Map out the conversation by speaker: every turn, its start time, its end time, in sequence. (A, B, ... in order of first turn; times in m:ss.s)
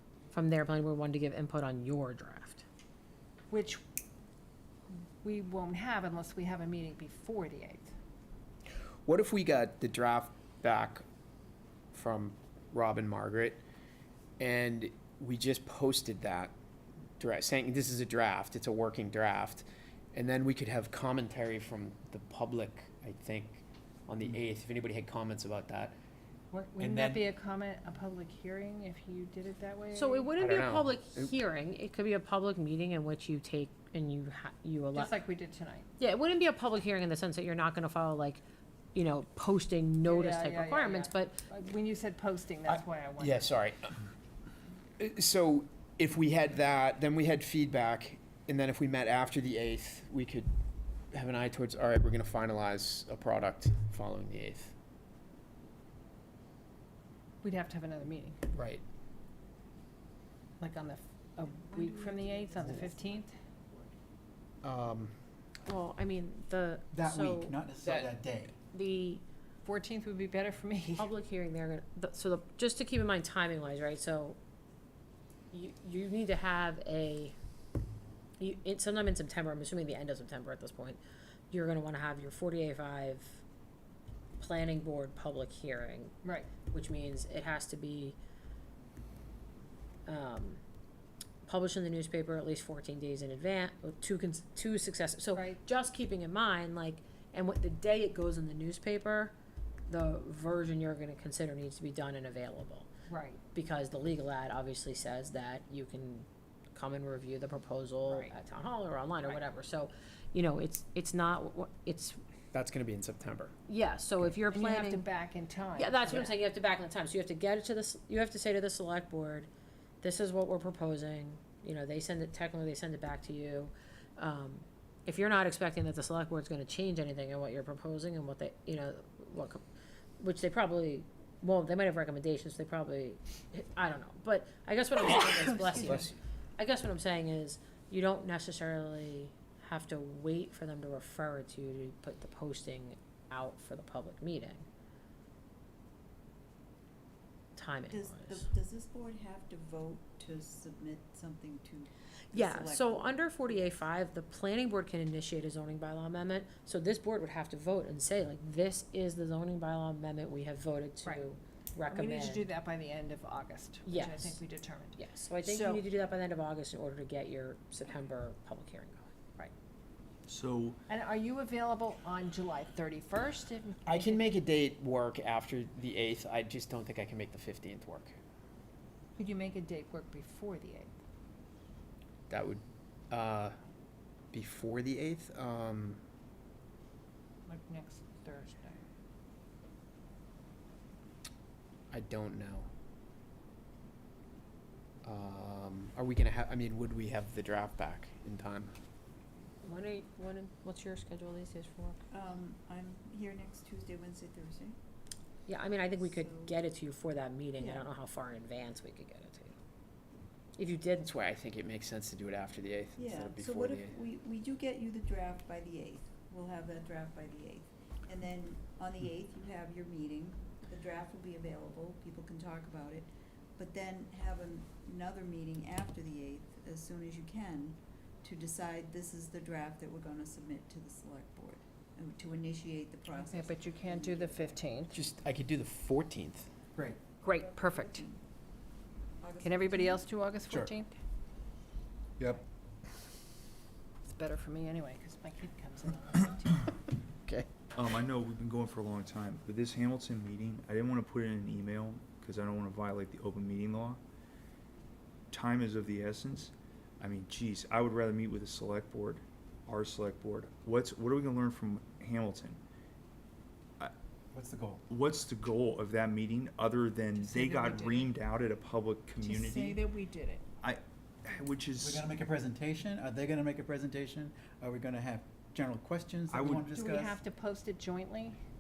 0:00.3-0:02.6 A
0:03.5-0:03.8 B
0:05.2-0:07.9 B
0:09.1-0:11.0 C
0:11.9-0:13.6 C
0:14.4-0:16.5 C
0:17.2-0:26.0 C
0:26.5-0:30.4 B
0:26.8-0:27.2 D
0:29.9-0:35.2 A
0:30.4-0:31.3 C
0:34.9-0:35.9 B
0:36.0-0:38.4 A
0:39.0-0:41.5 A
0:40.0-0:43.6 B
0:42.7-0:44.0 C
0:45.0-0:50.5 C
0:51.1-0:54.7 C
0:57.4-0:58.4 B
0:58.5-0:58.8 C
1:00.6-1:03.4 B
1:01.4-1:03.9 E
1:04.6-1:05.1 C
1:05.6-1:07.6 A
1:06.9-1:08.6 D
1:07.8-1:08.1 C
1:08.7-1:09.2 A
1:09.6-1:11.1 B
1:11.0-1:14.4 A
1:15.5-1:17.4 A
1:18.4-1:23.4 A
1:24.4-1:26.2 A
1:26.2-1:26.5 B
1:26.7-1:28.2 A
1:30.1-1:30.6 A
1:31.4-1:39.3 A
1:39.9-1:42.9 A
1:43.1-1:43.4 B
1:43.5-1:52.2 A
1:48.1-1:48.4 B
1:52.5-1:53.5 C
1:53.7-1:55.1 A
1:54.5-1:56.4 B
1:55.8-1:59.5 A
2:00.0-2:09.6 A
2:10.2-2:24.6 A
2:15.8-2:16.2 C
2:27.6-2:28.5 A
2:27.9-2:33.7 E
2:32.3-2:42.5 A
2:41.9-2:45.8 B
2:43.8-2:44.4 A
2:45.0-2:49.1 A
2:50.3-2:50.8 F
2:50.9-2:54.3 B
2:53.8-2:58.2 C
2:59.2-3:00.9 B
3:02.3-3:03.6 C
3:04.3-3:06.0 C
3:07.5-3:08.8 B
3:11.9-3:12.7 C
3:15.0-3:18.7 C
3:19.6-3:22.0 A
3:22.1-3:24.8 E
3:25.5-3:29.6 A
3:26.1-3:26.5 E
3:27.6-3:27.9 E
3:30.6-3:31.1 A
3:31.0-3:34.0 C
3:33.0-3:54.6 E
3:53.1-3:55.0 B
3:54.9-3:56.5 C
3:57.2-3:58.0 B
3:57.2-3:58.2 E
3:59.2-4:00.1 E
3:59.4-4:00.9 B
4:04.1-4:06.8 B
4:07.7-4:14.0 F
4:15.3-4:22.6 F
4:24.3-4:24.8 D
4:24.9-4:29.9 F
4:27.2-4:28.1 B
4:29.2-4:30.4 B
4:30.6-4:32.1 F
4:31.8-4:37.2 D
4:36.3-4:36.7 F
4:36.7-4:38.4 B
4:36.8-4:37.2 E